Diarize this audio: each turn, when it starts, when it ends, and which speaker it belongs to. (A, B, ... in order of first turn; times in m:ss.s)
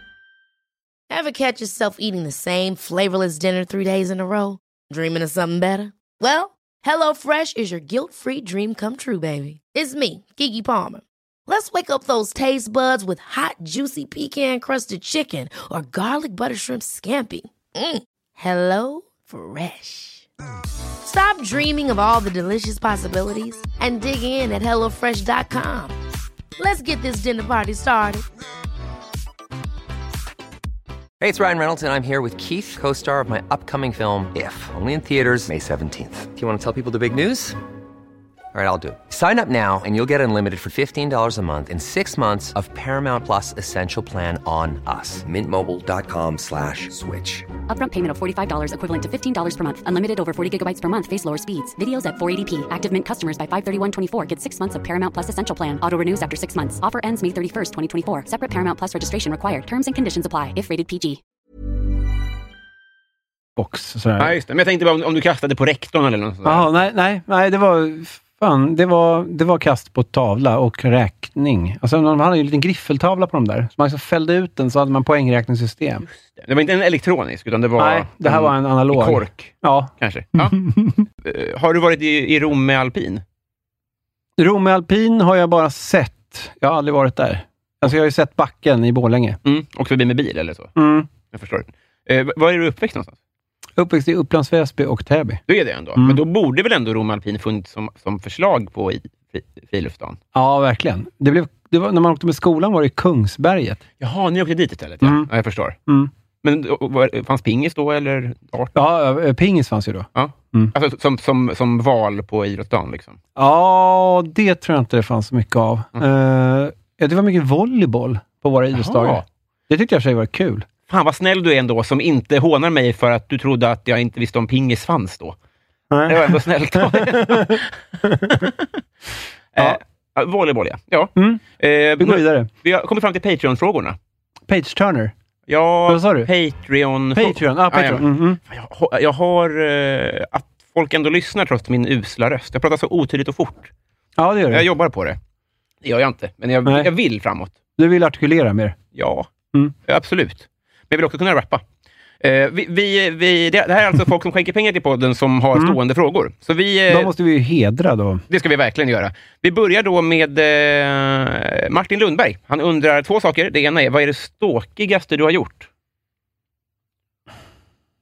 0:01.1-0:20.3 A
0:21.0-0:26.0 A
0:26.6-0:28.2 A
0:31.2-0:37.6 B
0:38.5-0:47.5 B
0:47.7-1:01.2 C
1:03.6-1:04.4 D
1:04.2-1:06.7 E
1:06.4-1:16.0 D
1:16.1-1:20.6 E
1:17.8-1:21.1 D
1:21.2-1:23.2 E
1:24.4-1:29.4 D
1:29.4-1:30.7 E
1:30.8-1:31.1 D
1:31.3-1:33.2 E
1:33.8-1:35.4 D
1:35.5-1:40.2 E
1:36.0-1:36.2 D
1:40.3-1:43.8 D
1:44.0-1:45.8 E
1:45.0-1:45.3 D
1:46.4-1:48.7 E
1:48.8-1:50.7 D
1:50.2-1:53.2 E
1:53.4-2:00.7 D
1:58.7-1:59.2 E
2:00.9-2:05.4 E
2:05.9-2:08.5 D
2:06.1-2:07.7 E
2:09.5-2:14.0 E
2:11.2-2:11.4 D
2:12.0-2:12.5 D
2:14.5-2:15.1 D
2:15.5-2:23.7 E
2:15.9-2:16.3 D
2:17.1-2:18.4 D
2:24.2-2:24.7 D
2:24.5-2:25.2 E
2:25.8-2:27.5 E
2:27.8-2:28.8 D
2:29.0-2:29.3 E
2:29.8-2:31.6 E
2:32.2-2:37.1 E
2:36.9-2:38.2 D
2:38.3-2:45.7 E